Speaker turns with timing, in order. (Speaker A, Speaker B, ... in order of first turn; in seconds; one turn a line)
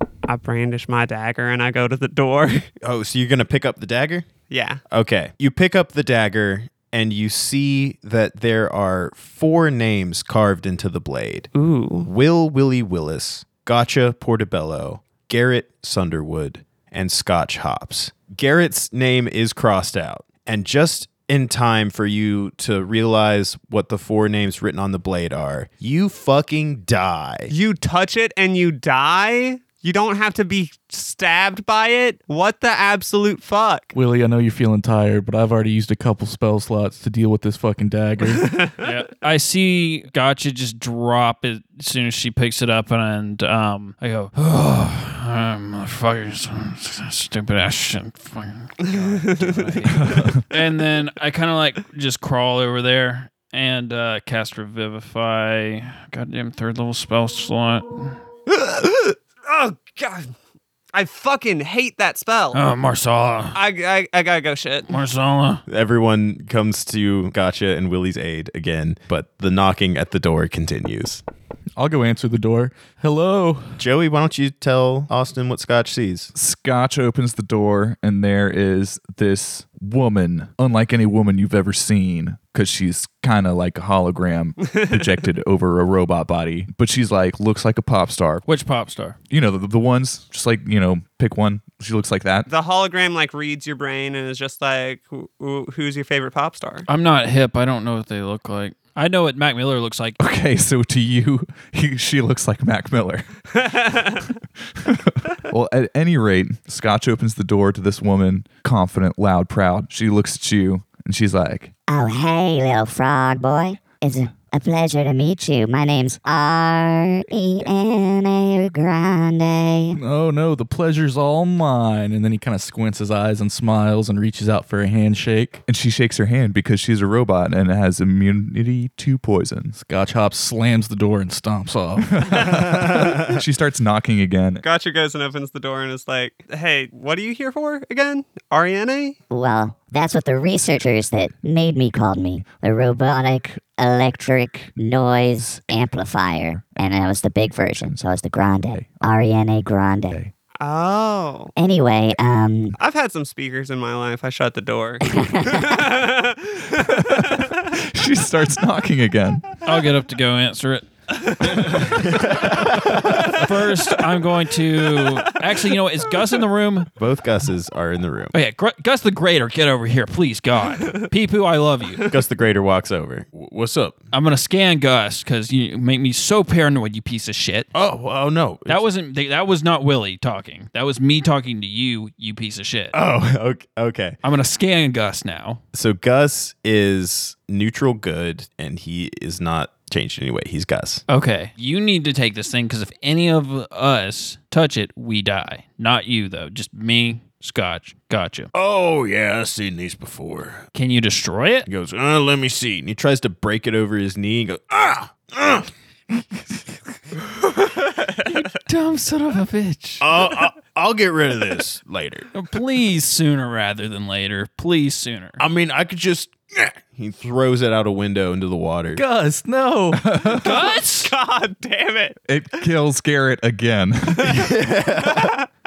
Speaker A: 0.2-2.7
Speaker B: 2.8-4.2
Speaker A: 4.5-4.8
Speaker B: 4.9-11.5
Speaker A: 11.5-12.1
Speaker B: 12.0-27.5
Speaker A: 27.5-33.9
Speaker C: 33.9-38.5
Speaker A: 38.4-38.7
Speaker D: 38.8-58.2
Speaker A: 48.8-49.9
Speaker E: 50.0-50.4
Speaker A: 58.5-60.3
Speaker A: 60.9-62.6
Speaker D: 62.5-63.6
Speaker A: 63.5-64.9
Speaker D: 64.9-65.6
Speaker B: 65.7-71.2
Speaker C: 71.8-73.8
Speaker B: 73.8-76.3
Speaker E: 76.3-88.4
Speaker D: 88.5-89.2
Speaker E: 89.3-92.5
Speaker A: 92.5-96.8
Speaker D: 96.9-100.2
Speaker E: 100.2-103.4
Speaker A: 103.5-104.2
Speaker E: 104.8-111.7
Speaker F: 111.9-120.0
Speaker C: 119.9-125.6
Speaker E: 125.7-129.8
Speaker C: 129.8-132.4
Speaker E: 132.1-134.6
Speaker A: 134.6-139.2
Speaker F: 139.3-150.3
Speaker A: 150.6-151.5
Speaker F: 151.6-152.8
Speaker A: 152.8-157.5
Speaker F: 155.1-155.8
Speaker E: 156.8-159.5
Speaker D: 159.6-160.9
Speaker D: 161.4-161.9
Speaker D: 162.9-166.9
Speaker B: 167.0-168.3
Speaker D: 168.3-172.1
Speaker B: 172.1-174.0
Speaker D: 174.1-177.7
Speaker B: 177.7-178.8
Speaker D: 178.7-182.9
Speaker B: 182.9-184.2
Speaker D: 184.2-185.6
Speaker B: 185.7-191.0
Speaker D: 191.1-198.5
Speaker B: 198.5-200.6
Speaker D: 200.7-201.7
Speaker B: 201.7-205.7
Speaker D: 208.3-210.1
Speaker B: 210.0-212.3
Speaker D: 212.3-215.4
Speaker B: 215.4-219.0
Speaker C: 218.9-220.2
Speaker E: 220.1-220.5
Speaker D: 220.3-221.1
Speaker A: 220.6-222.2
Speaker E: 222.3-224.5
Speaker B: 224.4-225.3
Speaker A: 225.0-225.5